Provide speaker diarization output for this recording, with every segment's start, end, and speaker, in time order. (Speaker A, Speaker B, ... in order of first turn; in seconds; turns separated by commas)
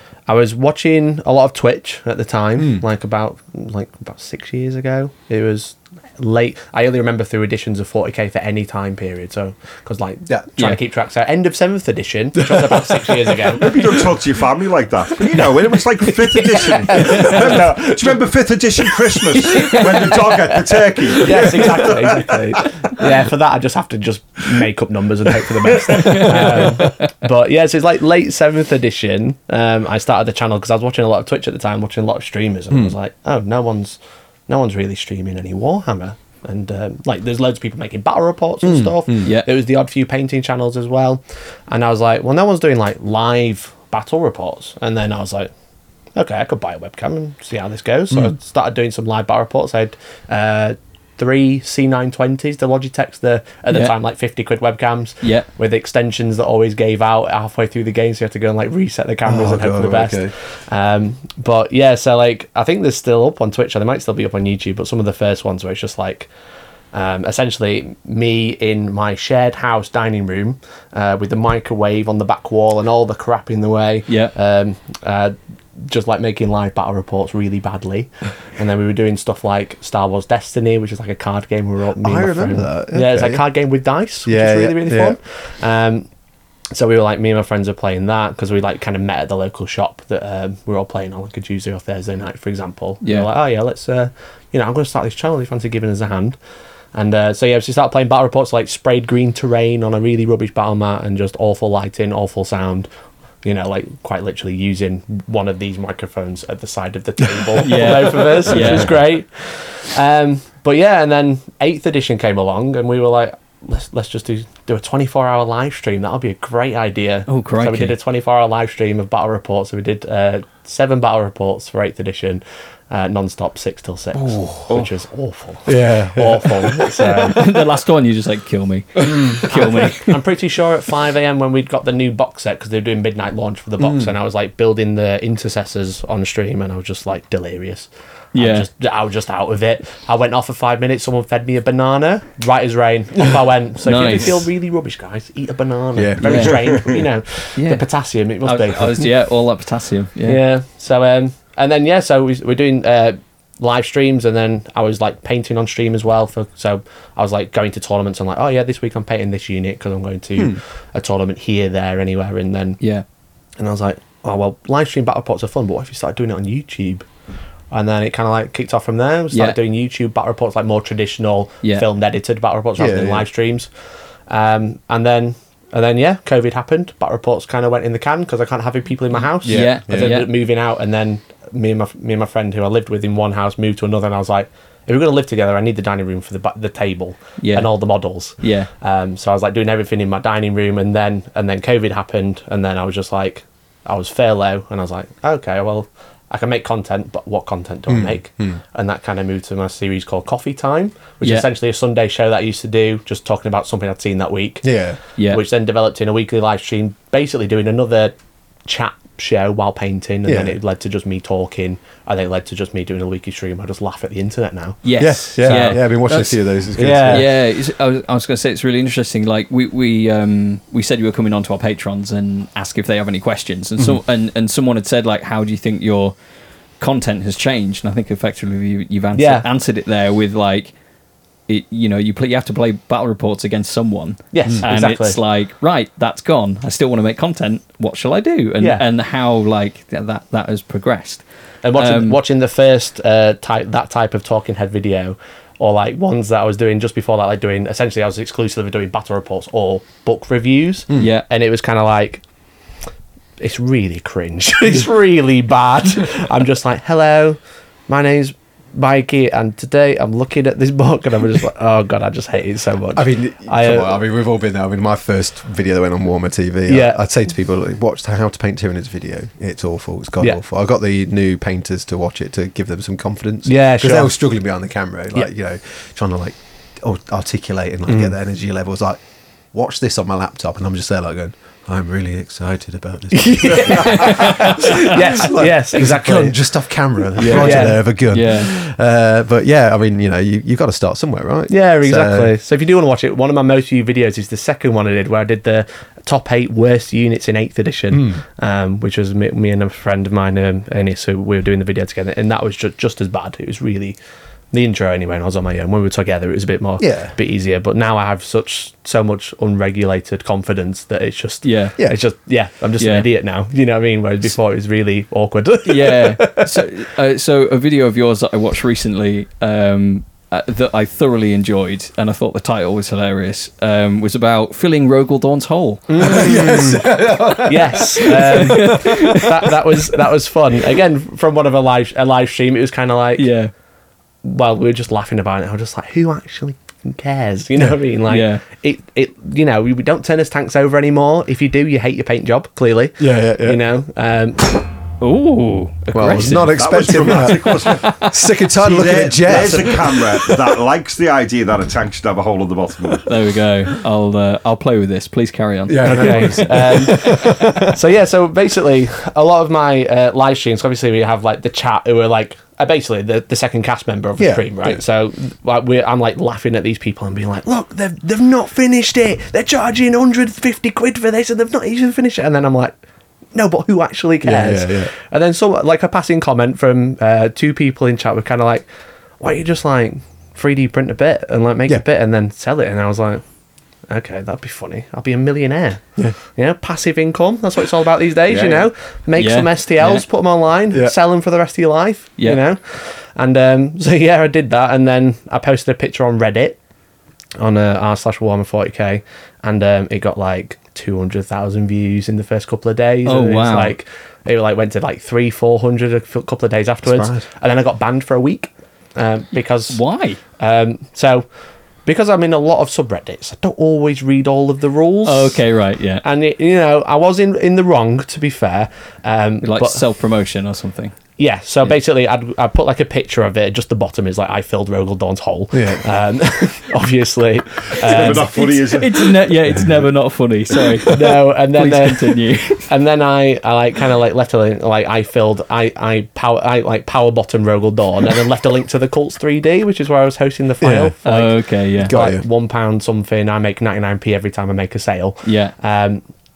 Speaker A: 0.3-13.9, Speaker B: 2.6-2.9, Speaker B: 12.4-13.2, Speaker C: 13.5-22.6, Speaker A: 16.3-18.2, Speaker A: 19.4-20.1, Speaker A: 21.2-45.5, Speaker D: 25.9-27.1, Speaker B: 38.6-39.3, Speaker A: 46.1-66.3, Speaker D: 55.2-55.5, Speaker B: 59.2-60.4, Speaker A: 66.9-86.1, Speaker D: 74.1-74.3, Speaker B: 82.0-83.5, Speaker B: 84.2-85.2, Speaker A: 86.7-96.4, Speaker D: 93.0-93.3, Speaker A: 96.9-102.9, Speaker A: 103.4-127.5, Speaker D: 107.6-109.0, Speaker D: 117.3-118.0, Speaker B: 124.1-124.7, Speaker B: 125.7-127.1, Speaker D: 127.2-130.2, Speaker A: 129.3-149.1, Speaker B: 133.8-134.1, Speaker D: 138.3-138.7, Speaker D: 143.8-144.4, Speaker B: 145.9-146.6, Speaker D: 146.2-146.8, Speaker C: 146.4-147.0, Speaker D: 147.6-147.9, Speaker D: 148.4-150.4, Speaker A: 150.2-162.8, Speaker D: 162.8-163.1, Speaker A: 163.6-167.1, Speaker A: 167.7-173.7, Speaker D: 169.3-169.6, Speaker B: 172.8-173.2, Speaker A: 174.3-204.7, Speaker B: 179.4-180.2, Speaker D: 179.4-180.3, Speaker D: 187.4-187.7, Speaker D: 188.4-188.7, Speaker B: 197.9-198.6, Speaker B: 204.6-205.0, Speaker D: 205.2-205.4, Speaker A: 205.2-208.1, Speaker A: 208.7-214.8, Speaker B: 210.2-210.6, Speaker D: 214.8-216.4, Speaker B: 215.0-217.3, Speaker A: 215.4-215.8, Speaker A: 216.8-217.3, Speaker D: 217.1-226.1, Speaker D: 226.8-230.7, Speaker A: 229.1-229.4, Speaker D: 231.5-241.2, Speaker A: 234.3-235.2, Speaker A: 241.6-252.2, Speaker D: 241.8-242.2, Speaker D: 250.9-251.2, Speaker A: 253.4-264.0, Speaker B: 262.9-279.0, Speaker A: 266.7-267.0, Speaker A: 273.4-274.1, Speaker A: 277.9-278.1, Speaker B: 279.5-292.3, Speaker A: 283.1-286.4, Speaker D: 284.0-284.8, Speaker D: 287.2-288.5, Speaker A: 287.2-287.8, Speaker A: 291.5-304.0, Speaker B: 297.9-298.2, Speaker A: 304.5-316.5, Speaker B: 306.8-307.1, Speaker D: 311.4-311.7, Speaker D: 312.8-313.1, Speaker D: 315.6-326.6, Speaker A: 325.9-333.3, Speaker B: 326.0-329.1, Speaker D: 328.1-329.4, Speaker D: 333.2-333.5, Speaker A: 334.2-344.7, Speaker D: 338.1-338.4, Speaker B: 343.0-343.6, Speaker D: 345.0-346.6, Speaker B: 345.9-350.6, Speaker A: 346.1-346.4, Speaker C: 346.5-348.0, Speaker D: 347.6-348.1, Speaker C: 348.6-353.1, Speaker A: 349.3-349.7, Speaker D: 353.1-356.9, Speaker B: 355.7-357.7, Speaker A: 355.8-372.7, Speaker B: 364.2-364.8, Speaker A: 373.3-378.6, Speaker B: 374.2-374.9, Speaker A: 379.2-383.2, Speaker A: 383.9-396.6, Speaker C: 388.3-388.7, Speaker D: 389.1-390.1, Speaker A: 397.4-409.8, Speaker D: 403.1-403.8, Speaker B: 406.8-407.2, Speaker D: 409.7-410.2, Speaker A: 410.4-411.3, Speaker A: 411.9-415.4, Speaker D: 415.1-416.0, Speaker A: 416.0-419.8, Speaker D: 419.4-420.9, Speaker A: 421.2-428.7, Speaker B: 425.5-425.9, Speaker C: 427.8-429.2, Speaker D: 427.9-432.7, Speaker A: 430.9-446.0, Speaker B: 440.6-440.9, Speaker D: 441.1-441.9, Speaker B: 441.8-442.2, Speaker D: 445.2-445.5